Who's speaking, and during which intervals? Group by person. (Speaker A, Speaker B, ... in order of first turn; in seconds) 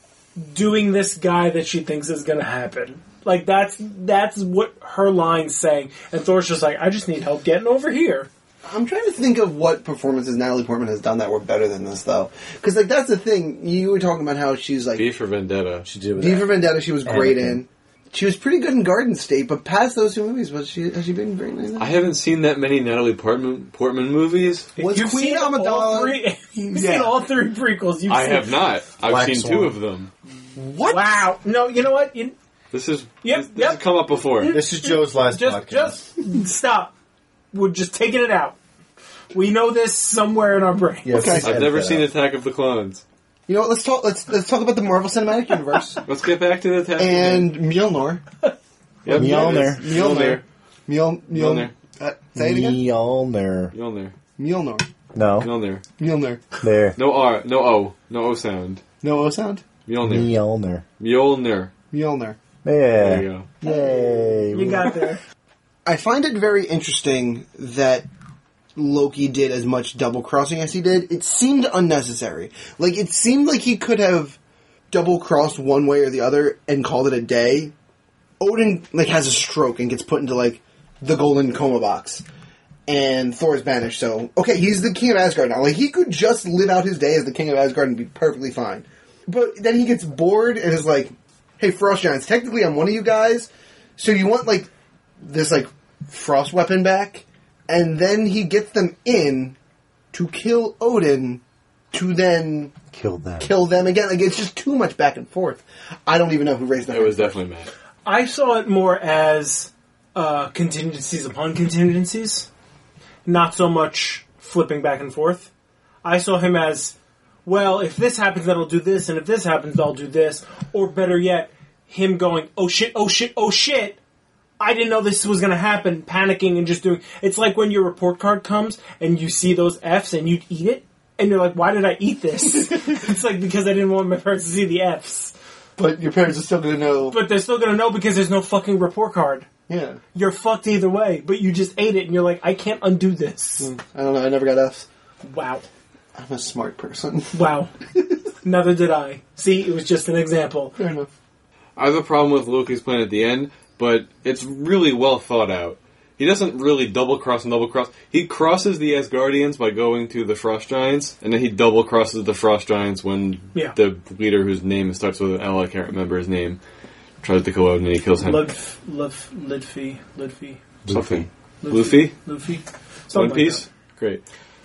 Speaker A: 0.4-8.3, 24.8-28.6, 30.8-32.4, 33.2-36.9, 37.5-38.6, 39.3-41.2, 64.5-65.2, 108.0-112.5, 113.2-115.5, 116.0-124.0, 124.6-135.3, 137.1-139.5, 140.1-143.7, 145.2-145.7, 147.3-147.7, 148.4-150.8, 168.2-170.6, 171.6-173.6
Speaker B: 8.7-15.1, 16.2-21.9, 24.8-27.2, 30.6-31.3, 41.1-41.5, 43.5-46.0, 47.0-48.2, 49.1-52.8, 54.4-54.9, 56.0-56.5, 59.0-59.6, 61.9-62.4, 63.6-64.5, 65.8-68.1, 68.8-74.4, 74.9-77.7, 78.4-82.2, 82.9-94.7, 95.2-99.6, 100.1-102.8, 103.4-107.3, 135.8-137.2, 139.7-140.0, 143.6-144.9, 146.2-147.3, 150.8-151.1
Speaker C: 15.0-15.9, 21.8-24.7, 28.1-30.1, 32.7-34.6, 41.4-43.0, 46.0-47.5, 49.0-50.4, 51.3-51.7, 53.7-54.1, 55.4-55.8, 57.0-58.8, 59.9-60.4, 61.0-61.7, 63.0-63.5, 106.9-107.7, 151.8-166.6, 167.2-168.5, 170.9-172.2, 173.1-174.2
Speaker D: 15.8-17.6, 29.0-29.8, 34.5-36.0, 41.0-42.1, 49.1-49.8, 52.4-53.7, 55.1-55.5, 56.6-57.0, 60.0-60.8, 62.6-65.0, 102.9-103.5, 170.8-171.3